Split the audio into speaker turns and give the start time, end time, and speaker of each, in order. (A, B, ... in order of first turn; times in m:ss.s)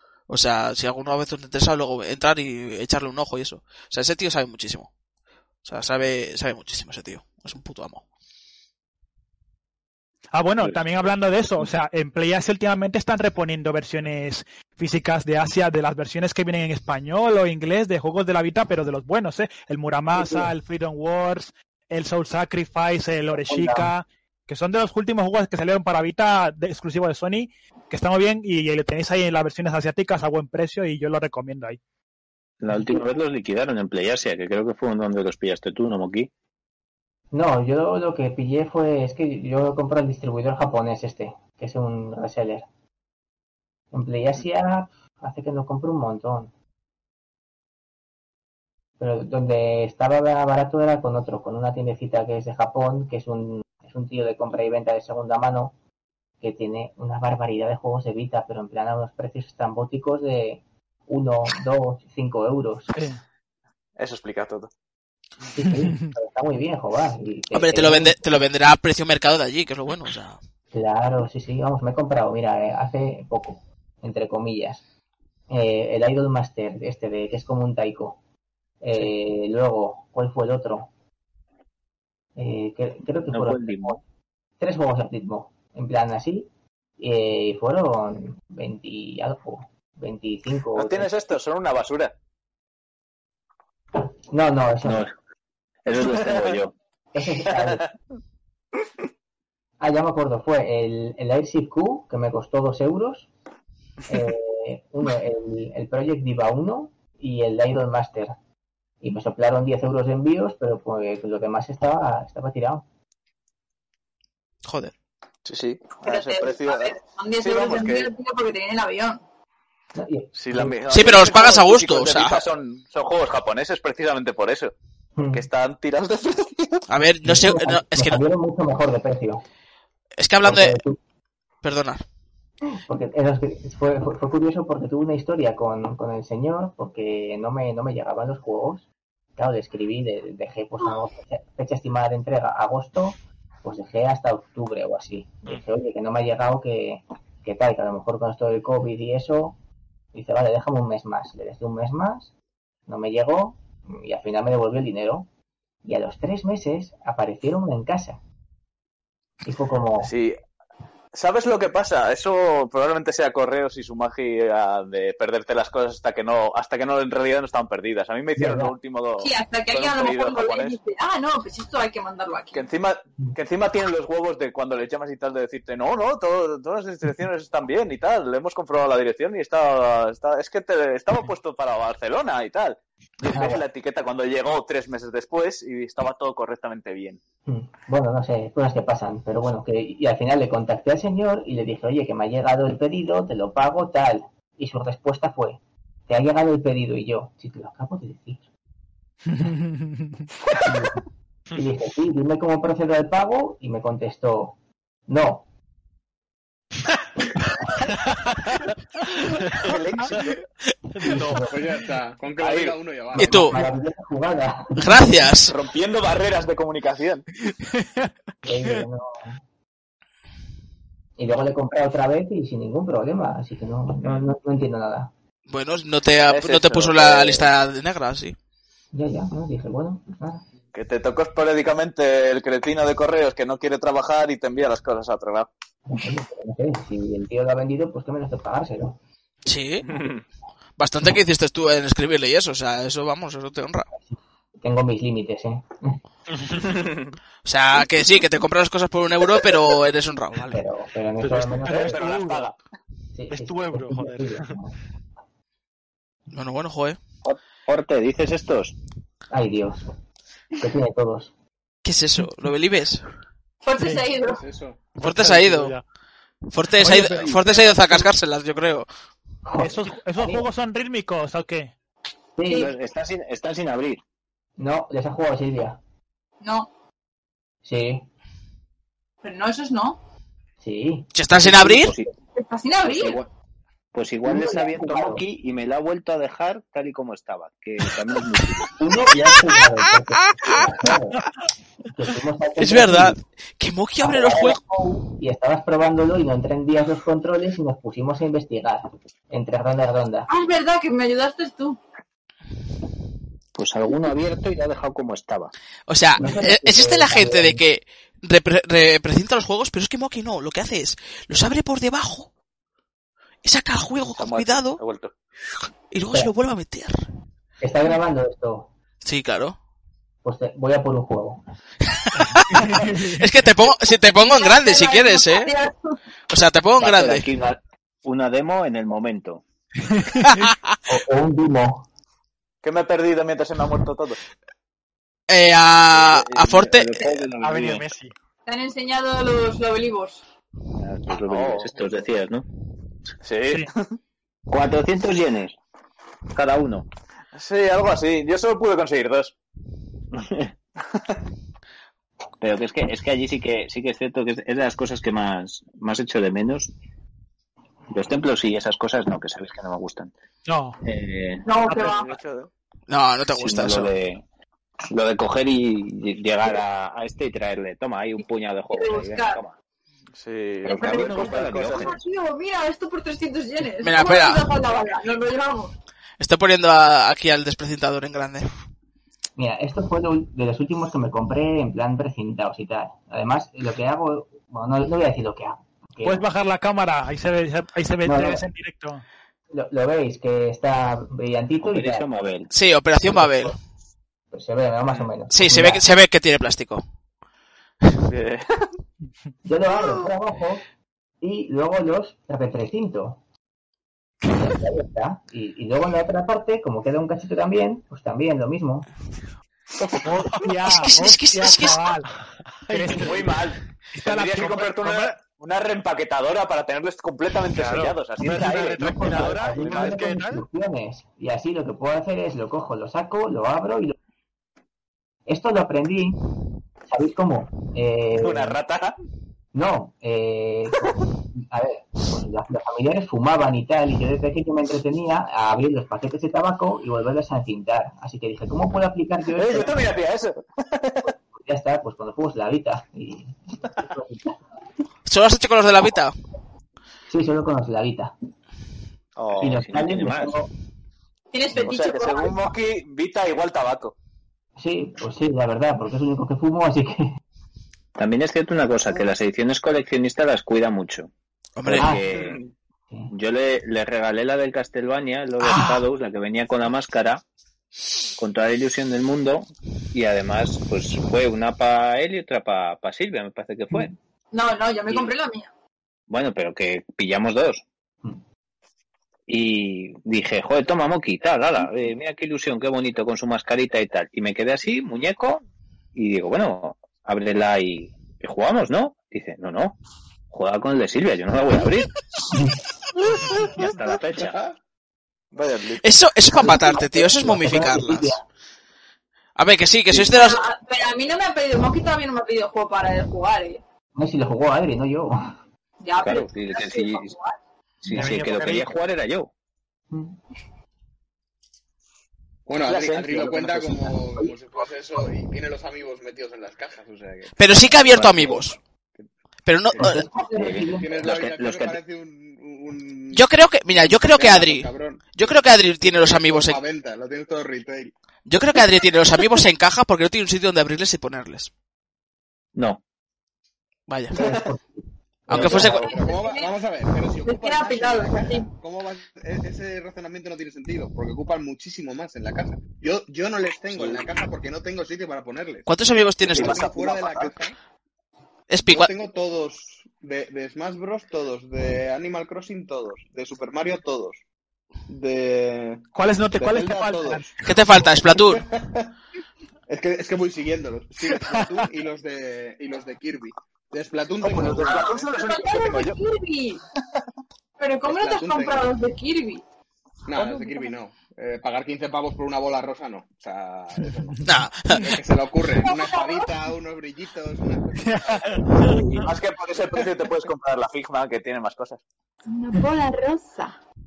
0:00.3-0:04.9 A
0:05.6-0:08.0 A
0:10.3-0:31.8 B
0:20.1-0:20.5 C
0:23.3-0:23.9 C
0:32.6-0:36.3 D
0:32.7-0:33.0 C
0:37.3-0:42.6 C
0:43.9-0:46.5 C
0:49.0-0:55.7 C
0:56.4-1:02.9 C
1:02.9-1:03.2 B
1:04.0-1:04.7 E
1:05.5-1:08.4 C
1:05.6-1:06.1 B
1:07.5-1:10.4 A
1:10.7-1:14.8 C
1:15.5-1:18.2 C
1:18.8-1:20.9 C
1:22.4-1:24.0 C
1:23.3-1:24.0 D
1:24.6-1:31.2 C
1:30.7-1:32.1 E
1:33.9-1:35.1 C
1:34.8-1:35.1 D
1:35.8-1:36.7 D
1:36.2-1:36.6 E
1:37.1-1:37.9 C
1:37.6-1:37.8 E
1:39.8-1:43.3 C
1:44.1-1:48.4 C
1:49.0-1:52.8 C
1:54.6-1:54.9 A
1:55.4-1:58.1 E
1:56.0-1:59.2 F
1:59.9-2:00.8 C
2:00.3-2:04.7 E
2:00.9-2:02.4 A
2:05.2-2:05.4 C
2:05.3-2:06.8 E
2:06.9-2:08.2 A
2:07.2-2:09.4 C
2:10.2-2:10.8 A
2:10.4-2:11.0 C
2:11.6-2:12.0 A
2:12.7-2:29.6 C
2:30.1-2:32.3 C
2:32.9-2:35.3 C
2:35.8-2:38.2 C
2:39.4-2:40.1 C
2:40.0-2:40.4 E
2:41.1-2:50.8 E
2:48.4-2:48.7 C
2:49.2-2:52.7 F
2:52.5-3:07.2 E
3:03.2-3:03.6 C
3:07.5-3:18.4 C
3:19.3-3:20.2 B
3:20.6-3:25.4 C
3:29.5-3:30.4 E
3:31.0-3:31.5 G
3:31.0-3:31.5 C
3:31.4-3:33.6 H
3:32.4-3:32.8 E
3:33.1-3:35.2 C
3:33.2-3:33.6 A
3:34.8-3:35.5 A
3:35.5-3:37.2 E
3:38.4-3:39.4 C
3:41.2-3:45.1 C
3:45.5-3:48.4 A
3:46.3-3:47.5 E
3:48.9-3:50.4 C
3:50.7-3:55.5 E
3:55.9-3:59.0 C
3:59.4-3:59.9 A
4:00.8-4:03.9 A
4:04.0-4:06.0 C
4:06.3-4:06.7 G
4:07.4-4:10.6 A
4:10.5-4:12.1 C
4:11.2-4:12.5 G
4:11.6-4:12.6 E
4:13.1-4:14.8 C
4:13.3-4:14.6 G
4:16.3-4:17.0 A
4:17.2-4:18.8 D
4:19.3-4:19.9 C
4:20.6-4:21.3 C
4:21.8-4:23.0 A
4:23.6-4:24.4 F
4:23.8-4:24.0 B
4:24.2-4:24.8 H
4:25.0-4:25.8 G
4:25.0-4:25.7 A
4:26.5-4:28.9 A
4:26.8-4:27.3 B
4:26.9-4:28.0 G
4:29.4-4:30.5 C
4:29.6-4:31.7 B
4:32.4-4:32.7 C
4:32.5-4:32.7 F
4:32.5-4:34.0 D
4:34.6-4:35.8 C
4:36.4-4:36.7 F
4:37.6-4:38.0 C
4:39.2-4:40.0 F
4:40.6-4:41.1 C
4:41.1-4:41.9 A
4:41.3-4:42.1 D
4:42.3-4:43.2 F
4:42.8-4:43.3 D
4:43.9-4:48.7 D
4:44.2-4:45.2 C
4:48.7-4:51.2 C
4:51.9-4:53.2 C
4:52.6-4:54.6 A
4:54.0-5:00.3 C
5:00.3-5:01.8 F
5:03.5-5:05.5 D
5:05.9-5:12.3 A
5:06.2-5:07.6 C
5:13.4-5:14.8 A
5:14.1-5:15.1 E
5:15.9-5:17.0 A
5:17.6-5:18.7 C
5:19.0-5:19.6 A
5:20.2-5:21.4 C
5:22.0-5:25.5 A
5:22.5-5:23.2 B
5:24.1-5:26.0 F
5:26.3-5:27.2 A
5:26.8-5:29.4 D
5:29.9-5:30.4 B
5:30.2-5:30.7 A
5:30.9-5:31.9 C
5:32.6-5:34.2 E
5:35.3-5:36.9 A
5:35.9-5:37.9 D
5:37.4-5:38.1 G
5:38.4-5:40.2 F
5:40.8-5:42.4 D
5:41.3-5:42.0 E
5:43.2-5:43.9 E
5:44.5-5:45.6 D
5:46.3-5:46.8 D
5:47.3-5:49.3 E
5:50.1-5:50.5 D
5:52.4-5:56.7 D
5:57.9-6:00.1 D
6:00.5-6:00.8 B
6:00.8-6:01.5 D
6:01.4-6:02.1 F
6:01.7-6:02.5 E
6:02.9-6:03.9 A
6:03.3-6:04.2 D
6:04.8-6:09.5 D
6:08.2-6:09.4 F
6:10.1-6:12.0 E
6:10.6-6:15.8 F
6:10.7-6:12.0 D
6:13.8-6:14.5 A
6:16.2-6:18.5 A
6:19.4-6:26.2 C
6:26.0-6:29.0 B
6:28.0-6:28.4 C
6:29.5-6:32.1 C
6:31.6-6:32.5 D
6:32.5-6:33.6 A
6:33.1-6:33.5 C
6:34.3-6:35.8 C
6:35.3-6:36.8 A
6:38.0-6:38.7 E
6:39.4-6:40.6 C
6:41.2-6:43.2 C
6:44.3-6:48.9 C
6:50.0-6:52.1 B
6:50.6-6:51.8 A
6:52.7-6:53.1 G
6:52.7-6:53.3 B
6:52.9-7:00.0 E
6:53.9-6:55.1 B
6:57.5-7:00.4 G
6:58.2-7:04.0 C
7:05.3-7:06.2 C
7:06.9-7:08.6 C
7:08.2-7:09.0 E
7:09.5-7:19.9 C
7:19.4-7:21.1 E
7:21.3-7:24.4 C
7:25.0-7:26.1 A
7:27.1-7:28.1 C
7:29.2-7:29.6 E
7:29.4-7:30.3 D
7:29.4-7:30.5 C
7:31.3-7:32.4 F
7:31.5-7:33.9 E
7:34.6-7:37.1 C
7:38.0-7:41.1 D
7:41.6-7:41.9 A
7:41.6-7:42.4 D
7:41.8-7:42.1 C
7:42.1-7:42.5 E
7:43.1-7:47.2 D
7:45.4-7:45.8 A
7:48.2-7:53.9 D
7:54.3-7:55.5 F
7:56.1-7:57.6 D
7:59.3-8:05.4 D
8:05.9-8:09.8 D
8:10.3-8:11.9 D
8:13.3-8:14.4 D
8:14.1-8:14.5 H
8:15.3-8:15.8 E
8:15.8-8:18.2 A
8:16.3-8:18.2 C
8:19.4-8:20.4 A
8:19.9-8:20.2 D
8:20.1-8:23.6 F
8:23.9-8:25.4 C
8:25.8-8:27.4 F
8:26.0-8:27.1 D
8:27.8-8:29.3 D
8:27.9-8:28.7 G
8:29.9-8:30.2 C
8:32.5-8:38.4 H
8:32.7-8:33.7 E
8:34.0-8:34.3 C
8:37.4-8:38.6 A
8:39.4-8:40.0 A
8:39.8-8:41.0 C
8:40.3-8:41.8 D
8:40.8-8:45.0 H
8:43.1-8:46.6 A
8:45.8-8:47.9 H
8:48.2-8:51.5 A
8:52.5-8:52.8 D
8:53.9-8:54.1 A
8:54.1-8:55.8 C
8:55.3-8:55.8 A
8:55.3-9:05.7 H
8:55.3-8:55.8 E
8:55.5-8:56.5 F
8:57.2-8:58.5 F
9:05.6-9:06.6 A
9:06.2-9:07.5 H
9:06.3-9:07.3 E
9:08.5-9:08.9 A
9:08.6-9:14.2 H
9:14.9-9:19.0 H
9:15.9-9:17.3 B
9:17.4-9:18.4 A
9:19.7-9:25.1 H
9:21.2-9:21.4 B
9:24.2-9:26.0 E
9:24.6-9:26.6 F
9:27.6-9:29.4 F
9:27.8-9:28.7 H
9:30.0-9:38.9 H
9:30.3-9:30.6 G
9:34.2-9:34.8 A
9:35.6-9:36.3 F
9:37.8-9:39.0 B
9:38.6-9:41.8 E
9:42.3-9:43.6 F